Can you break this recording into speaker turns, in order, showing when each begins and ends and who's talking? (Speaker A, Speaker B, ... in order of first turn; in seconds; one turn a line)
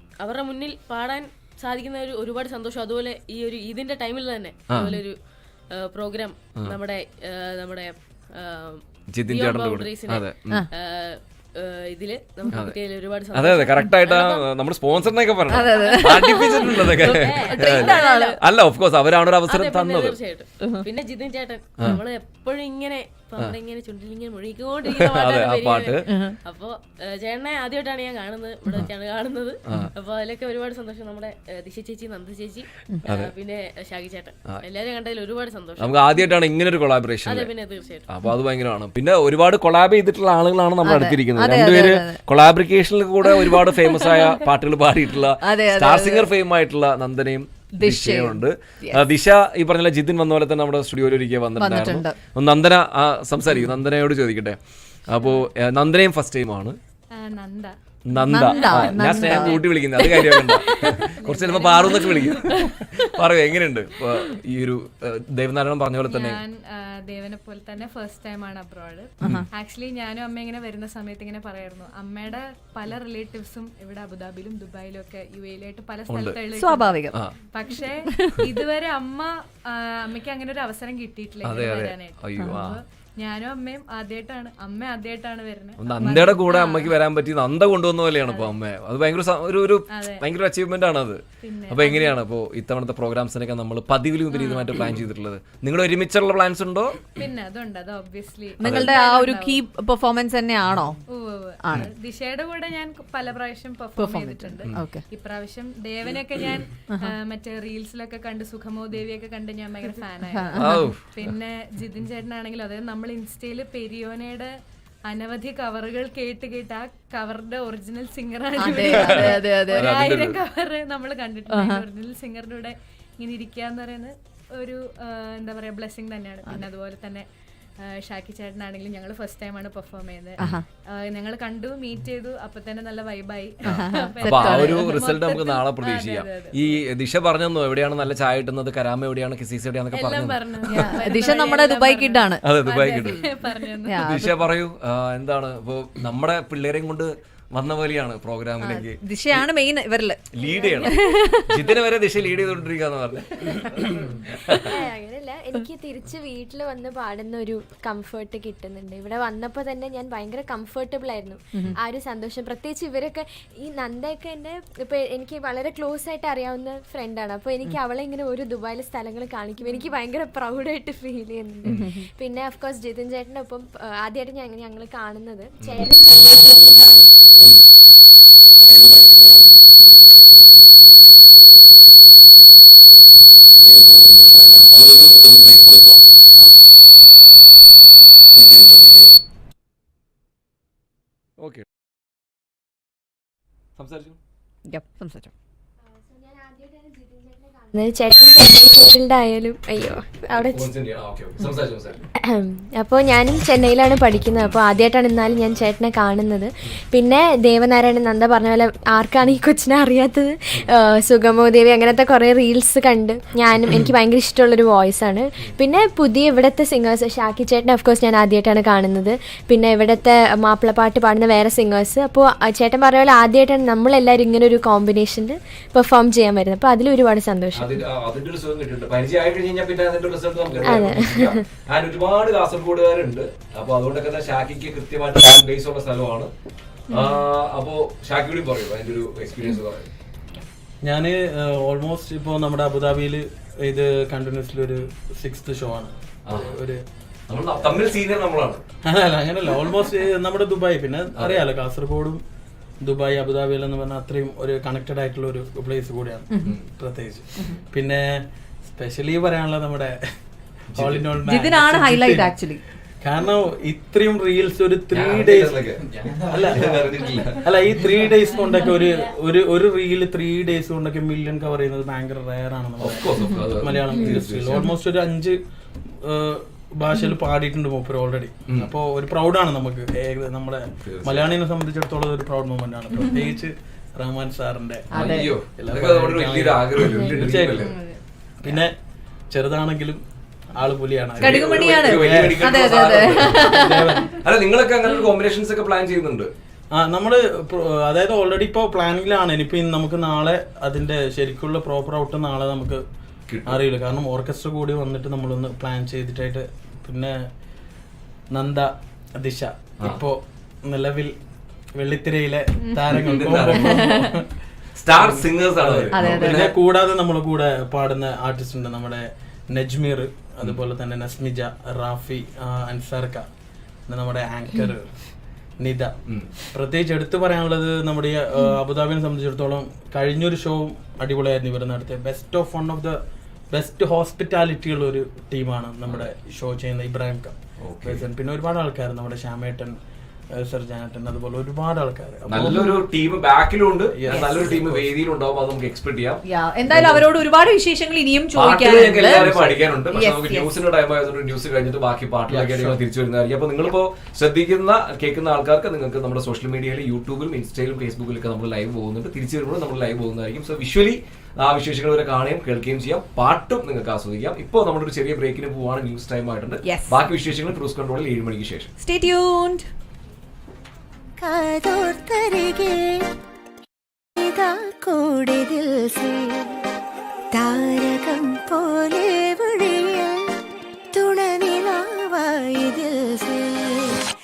Speaker A: 0.2-5.2
Speaker B: 4.7-5.0
Speaker A: 5.7-14.4
Speaker B: 9.1-10.6
Speaker B: 12.5-12.8
Speaker B: 13.3-20.2
Speaker C: 15.5-18.4
Speaker A: 15.7-18.4
Speaker A: 19.5-36.3
Speaker C: 20.6-20.9
Speaker B: 24.9-26.1
Speaker C: 26.1-26.4
Speaker B: 29.7-29.9
Speaker B: 33.1-33.3
Speaker B: 35.8-37.5
Speaker A: 37.3-38.1
Speaker B: 38.1-54.6
Speaker C: 40.8-42.2
Speaker C: 43.2-44.4
Speaker C: 45.4-46.3
Speaker C: 47.7-49.0
Speaker C: 51.6-52.2
Speaker B: 55.1-56.8
Speaker D: 55.2-55.4
Speaker D: 57.1-59.5
Speaker B: 58.1-66.4
Speaker C: 58.3-60.7
Speaker D: 60.3-62.5
Speaker D: 66.1-87.0
Speaker B: 76.1-76.4
Speaker C: 76.5-77.2
Speaker C: 78.1-78.5
Speaker B: 81.4-82.8
Speaker C: 82.4-82.7
Speaker B: 85.8-97.0
Speaker D: 88.2-88.6
Speaker D: 89.9-90.3
Speaker D: 91.4-92.2
Speaker D: 94.3-94.8
Speaker D: 97.2-99.6
Speaker C: 98.6-101.0
Speaker B: 98.6-98.9
Speaker D: 101.1-114.5
Speaker C: 101.6-101.9
Speaker C: 104.0-105.0
Speaker C: 106.9-107.1
Speaker C: 110.3-111.0
Speaker B: 110.6-111.3
Speaker D: 115.1-127.2
Speaker C: 118.6-119.9
Speaker B: 118.9-120.4
Speaker C: 121.5-121.8
Speaker D: 128.0-136.8
Speaker C: 130.4-130.7
Speaker B: 133.7-140.9
Speaker C: 133.7-135.0
Speaker A: 139.9-141.9
Speaker D: 140.3-144.3
Speaker C: 140.7-142.5
Speaker B: 142.4-143.2
Speaker C: 143.8-144.4
Speaker B: 144.0-149.5
Speaker C: 148.6-151.7
Speaker B: 150.3-151.0
Speaker E: 150.4-151.3
Speaker B: 151.5-154.8
Speaker E: 154.7-177.1
Speaker C: 171.7-172.1
Speaker B: 175.6-175.9
Speaker B: 184.1-186.6
Speaker B: 188.3-189.1
Speaker B: 191.4-191.7
Speaker B: 193.8-194.2
Speaker C: 194.7-195.3
Speaker E: 195.8-200.7
Speaker B: 200.3-202.1
Speaker E: 202.3-227.8
Speaker B: 227.5-236.3
Speaker E: 230.7-231.4
Speaker B: 236.9-239.9
Speaker F: 240.8-246.8
Speaker B: 246.3-246.6
Speaker B: 247.3-248.6
Speaker F: 247.6-247.8
Speaker F: 248.8-252.2
Speaker B: 251.2-251.4
Speaker F: 252.8-260.0
Speaker B: 260.7-261.1
Speaker F: 260.8-262.4
Speaker C: 261.2-262.6
Speaker F: 263.0-275.4
Speaker B: 264.9-267.6
Speaker A: 268.4-269.1
Speaker B: 272.8-274.6
Speaker F: 275.9-287.8
Speaker B: 280.8-281.3
Speaker C: 284.9-285.3
Speaker B: 285.0-287.8
Speaker F: 288.4-288.7
Speaker F: 289.3-290.0
Speaker F: 290.5-294.1
Speaker B: 291.2-293.7
Speaker C: 291.2-294.0
Speaker B: 294.2-296.3
Speaker F: 296.7-302.8
Speaker B: 303.3-303.6
Speaker F: 303.5-307.2
Speaker F: 308.3-311.2
Speaker F: 311.8-314.3
Speaker B: 312.9-313.9
Speaker B: 314.8-316.5
Speaker F: 314.9-323.3
Speaker C: 315.9-316.5
Speaker F: 323.9-324.9
Speaker F: 325.6-325.9
Speaker F: 326.5-333.0
Speaker F: 333.5-339.8
Speaker B: 337.6-338.1
Speaker F: 340.4-342.8
Speaker B: 342.3-346.2
Speaker F: 343.9-344.9
Speaker C: 344.1-344.4
Speaker C: 346.2-350.6
Speaker F: 346.7-347.0
Speaker B: 348.3-368.7
Speaker F: 352.3-352.8
Speaker C: 366.6-367.0
Speaker C: 368.8-369.6
Speaker G: 371.2-373.1
Speaker G: 374.2-376.6
Speaker G: 377.3-380.3
Speaker G: 380.9-384.0